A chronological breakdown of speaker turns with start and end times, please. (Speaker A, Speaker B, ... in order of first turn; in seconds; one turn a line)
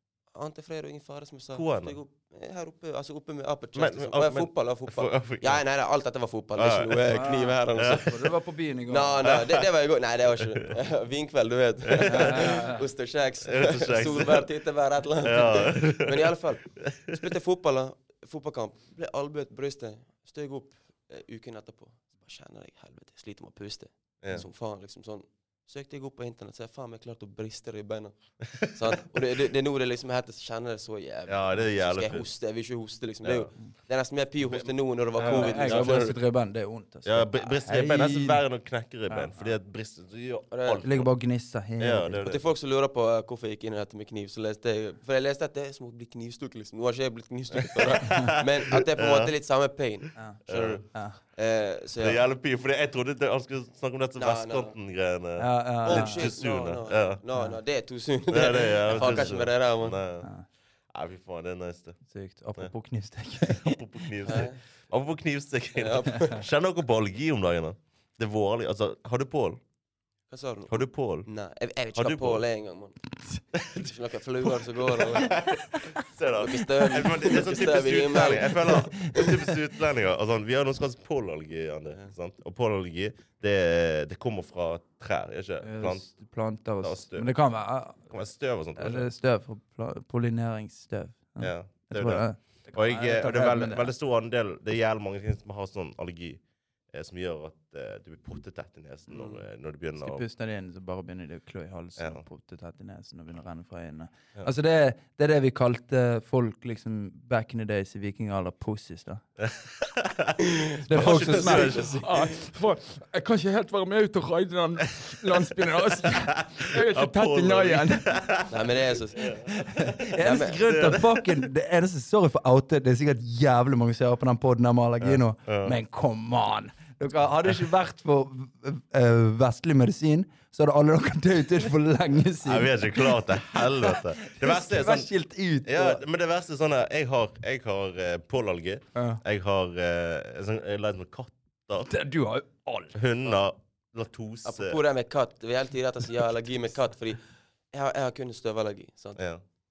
Speaker A: 0.3-8.3
Speaker B: 1.5-1.9
Speaker B: 3.7-5.6
Speaker B: 6.5-7.2
Speaker C: 7.1-9.2
Speaker B: 7.7-8.1
Speaker A: 8.9-36.1
Speaker B: 9.2-9.7
Speaker B: 10.3-10.7
Speaker B: 11.8-12.5
Speaker C: 12.0-12.8
Speaker B: 13.4-14.5
Speaker B: 15.2-17.2
Speaker B: 28.5-29.0
Speaker B: 31.3-32.3
Speaker B: 33.2-33.5
Speaker B: 34.5-36.0
Speaker C: 35.2-38.4
Speaker B: 37.0-41.1
Speaker C: 39.1-39.5
Speaker A: 40.5-40.8
Speaker C: 40.8-42.2
Speaker B: 41.8-42.4
Speaker A: 42.2-52.2
Speaker B: 47.6-49.3
Speaker C: 48.0-48.4
Speaker B: 50.5-50.8
Speaker C: 50.9-51.2
Speaker B: 52.0-57.2
Speaker A: 54.2-54.7
Speaker C: 55.4-56.3
Speaker A: 55.8-60.0
Speaker B: 58.3-60.3
Speaker B: 60.9-62.0
Speaker C: 62.1-63.8
Speaker B: 63.4-69.6
Speaker A: 64.2-64.6
Speaker A: 65.8-66.4
Speaker C: 66.1-66.4
Speaker A: 70.3-73.0
Speaker B: 70.7-71.3
Speaker B: 72.0-72.4
Speaker B: 73.5-73.8
Speaker A: 73.8-75.4
Speaker B: 75.0-86.0
Speaker C: 75.4-76.0
Speaker A: 76.4-79.5
Speaker C: 78.5-79.3
Speaker C: 85.6-88.1
Speaker B: 86.8-87.3
Speaker B: 88.1-89.1
Speaker C: 88.8-93.9
Speaker B: 91.4-100.2
Speaker A: 99.1-99.4
Speaker C: 100.0-109.2
Speaker B: 102.0-102.2
Speaker B: 109.4-112.3
Speaker A: 110.5-112.2
Speaker C: 110.8-118.2
Speaker B: 116.0-120.0
Speaker A: 118.5-119.4
Speaker C: 119.5-136.0
Speaker A: 120.2-120.8
Speaker B: 120.6-121.4
Speaker B: 125.0-125.8
Speaker B: 132.4-135.1
Speaker B: 135.6-141.9
Speaker C: 138.9-139.2
Speaker C: 141.8-143.0
Speaker B: 142.9-144.8
Speaker A: 144.4-149.2
Speaker B: 149.2-149.4